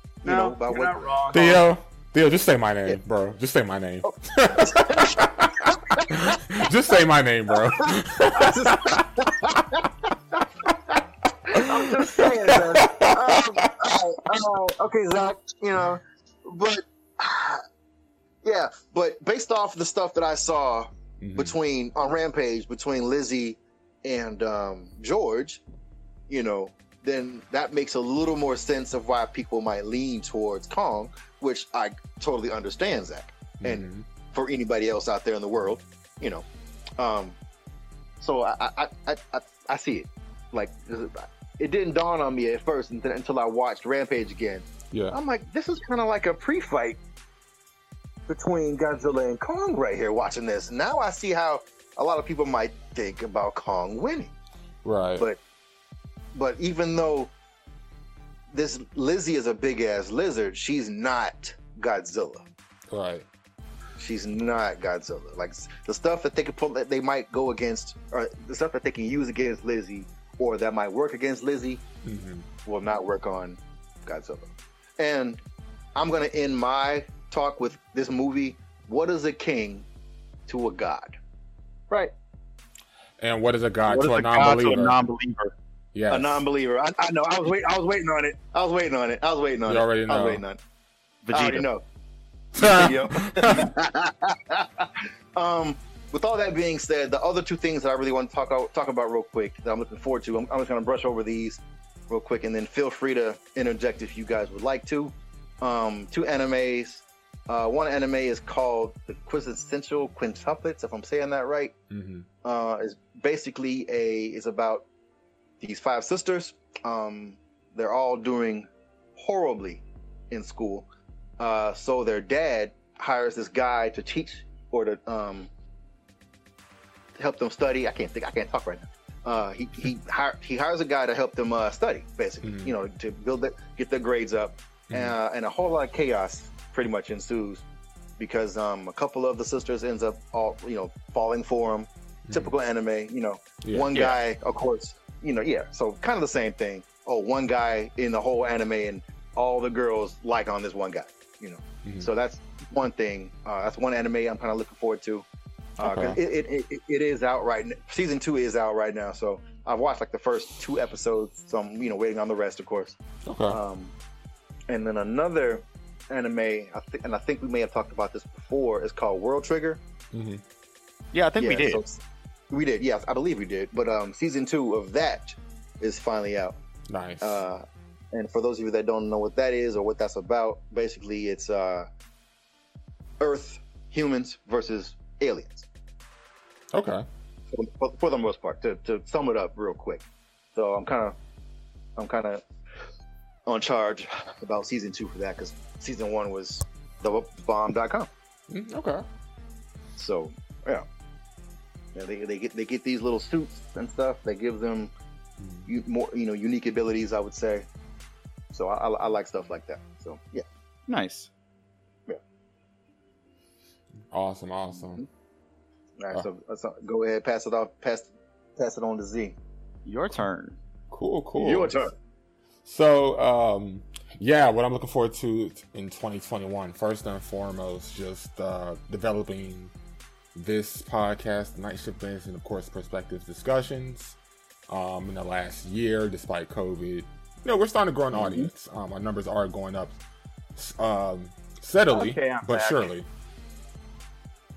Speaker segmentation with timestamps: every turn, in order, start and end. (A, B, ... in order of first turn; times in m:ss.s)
0:00.2-0:01.0 A
0:00.2-0:01.7 B
0:01.3-0:09.0 C
0:04.0-0:06.3 A
0:07.5-0:10.4 A
0:11.5-0:13.7 C
0:11.5-0:17.6 A
0:18.4-0:25.6 A
0:21.2-0:21.6 C
0:26.3-0:36.4 A
0:33.6-0:34.0 C
0:37.0-0:37.4 A
0:38.2-0:47.0 A
0:44.9-0:45.2 C
0:48.3-0:54.3 A
0:54.8-0:55.3 C
0:56.3-0:57.3 A
0:58.5-1:02.4 A
1:02.9-1:03.2 C
1:04.0-1:11.8 A
1:12.0-1:12.5 C
1:12.6-1:15.4 A
1:15.9-1:19.9 A
1:20.5-1:21.2 A
1:23.2-1:25.0 C
1:23.9-1:25.5 D
1:25.9-1:26.4 C
1:26.1-1:30.6 A
1:29.7-1:30.4 C
1:31.2-1:31.7 D
1:31.3-1:31.8 A
1:32.5-1:33.7 C
1:32.6-1:51.7 A
1:51.9-1:52.3 C
1:52.4-1:54.8 A
1:55.6-2:00.9 A
2:01.4-2:05.5 A
2:07.2-2:17.6 A
2:12.4-2:12.7 C
2:18.2-2:35.2 A
2:22.3-2:22.5 C
2:23.6-2:23.9 C
2:31.8-2:32.1 C
2:35.8-2:43.0 A
2:35.8-2:36.2 C
2:43.2-2:43.6 C
2:43.5-2:43.9 A
2:44.7-2:49.8 A
2:50.1-2:50.4 C
2:51.1-2:51.8 D
2:51.4-2:56.6 A
2:56.9-2:57.4 C
2:57.2-3:01.8 A
3:03.2-3:05.7 A
3:06.7-3:07.0 C
3:07.5-3:11.2 A
3:12.0-3:12.4 A
3:13.4-3:18.1 A
3:18.5-3:19.0 C
3:19.9-3:20.8 A
3:21.9-3:24.9 A
3:25.4-3:25.7 C
3:25.7-3:27.7 A
3:28.5-3:30.4 A
3:30.9-3:31.3 D
3:34.1-3:35.0 C
3:34.8-3:35.0 A
3:36.0-3:39.4 A
3:39.8-3:40.6 D
3:40.9-3:41.8 C
3:41.4-3:41.9 A
3:42.6-3:49.7 C
3:50.3-3:54.2 C
3:54.7-4:00.0 C
3:58.1-3:58.5 A
4:00.6-4:03.1 C
4:01.9-4:02.9 B